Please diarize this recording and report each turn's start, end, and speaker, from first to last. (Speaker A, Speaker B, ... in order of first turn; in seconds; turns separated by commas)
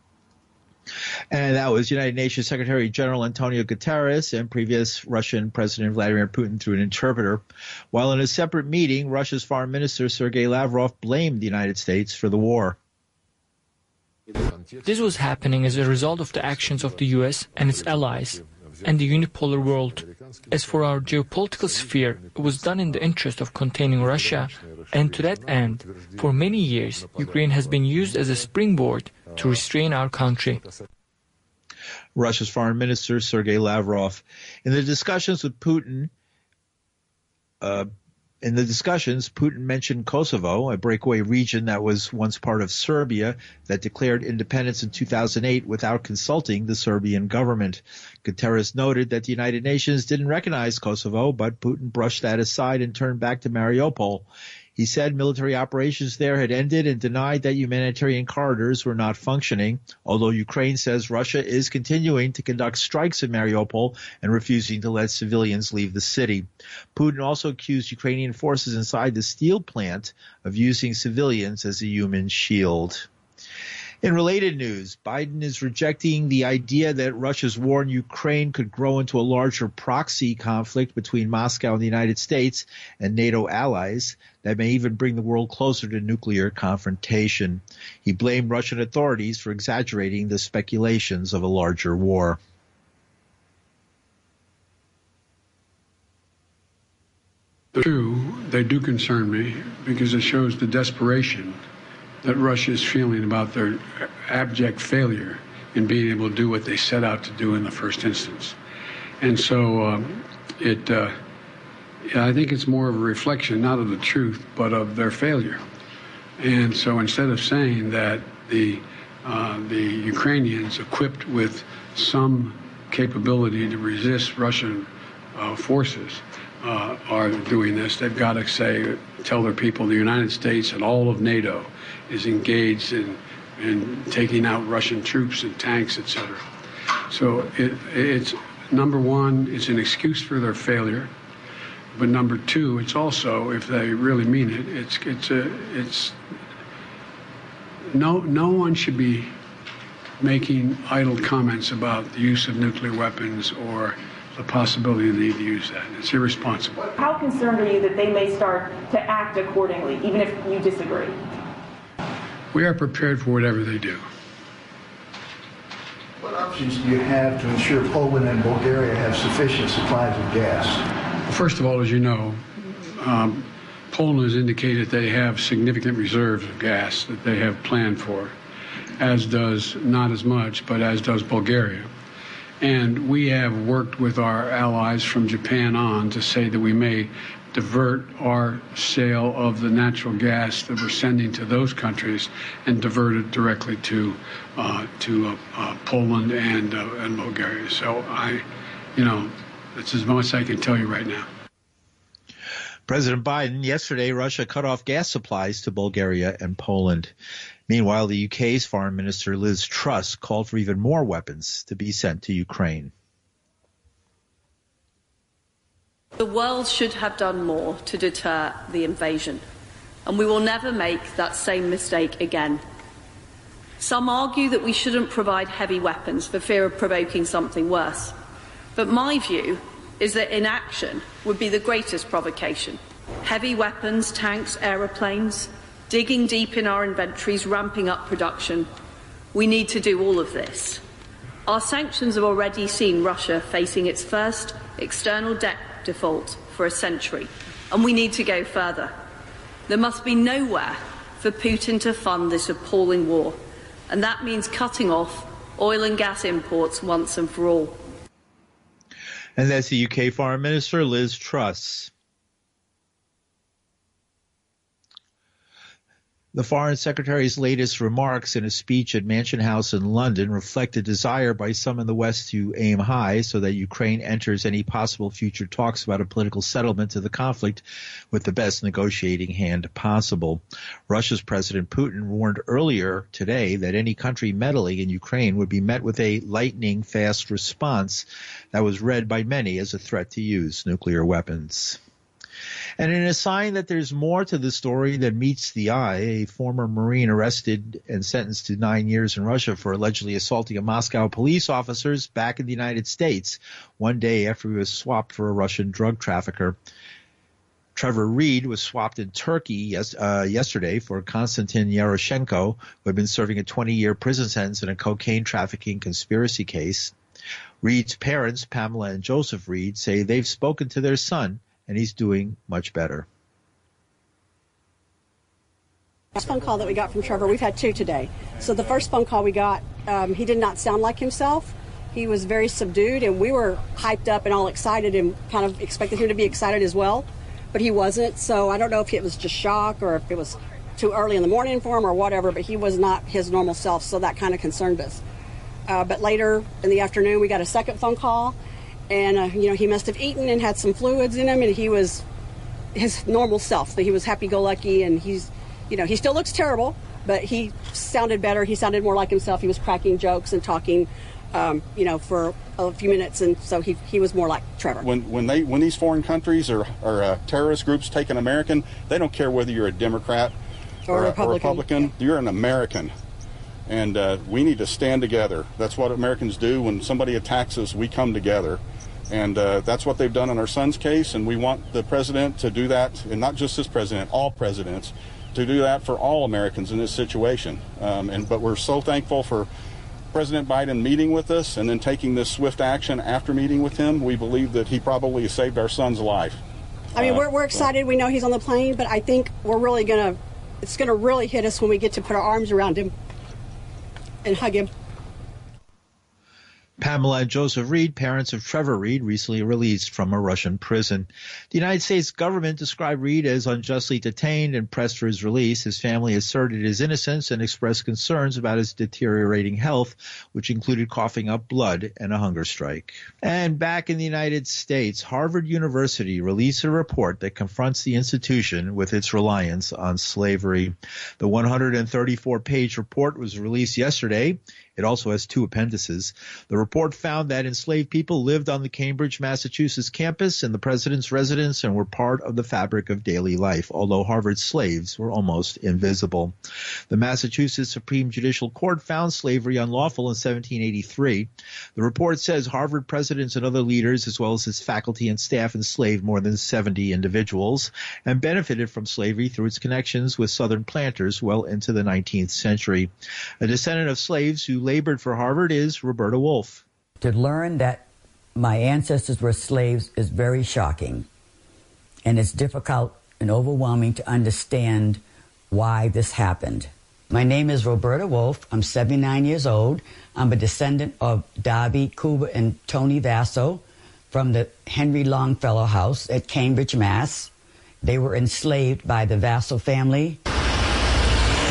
Speaker A: 1.3-12.8, Speaker B: 14.8-30.7, Speaker A: 32.2-36.1, Speaker A: 37.6-37.9, Speaker A: 38.4-73.1, Speaker A: 74.0-92.4, Speaker C: 97.7-101.6, Speaker C: 102.2-108.6, Speaker C: 109.2-111.2, Speaker C: 112.1-115.6, Speaker C: 116.4-136.4, Speaker C: 137.1-141.1, Speaker C: 141.9-146.2, Speaker C: 147.9-149.3, Speaker C: 150.2-156.8, Speaker D: 157.0-161.2, Speaker C: 162.5-164.0, Speaker E: 166.2-170.8, Speaker C: 171.2-178.3, Speaker C: 179.0-181.9, Speaker C: 182.6-201.3, Speaker A: 202.9-207.1, Speaker A: 207.7-212.9, Speaker F: 216.2-219.4, Speaker F: 220.1-222.6, Speaker F: 223.8-228.2, Speaker F: 228.8-238.7, Speaker F: 239.3-240.8, Speaker F: 241.5-248.9, Speaker F: 249.7-253.4, Speaker F: 253.9-257.8, Speaker A: 259.4-261.9, Speaker A: 266.3-291.8, Speaker A: 292.8-306.6, Speaker A: 307.8-316.9, Speaker A: 317.6-323.1, Speaker G: 326.1-345.0, Speaker G: 345.7-348.4, Speaker G: 348.9-352.0, Speaker G: 352.8-364.9, Speaker H: 364.8-370.4, Speaker G: 370.9-371.9, Speaker H: 370.9-372.9, Speaker H: 373.7-389.5, Speaker H: 390.1-396.4, Speaker H: 396.9-397.3, Speaker G: 396.9-402.9, Speaker G: 404.2-404.7, Speaker A: 406.8-446.3, Speaker A: 446.9-466.6, Speaker I: 467.0-471.1, Speaker I: 472.1-487.3, Speaker I: 487.8-490.2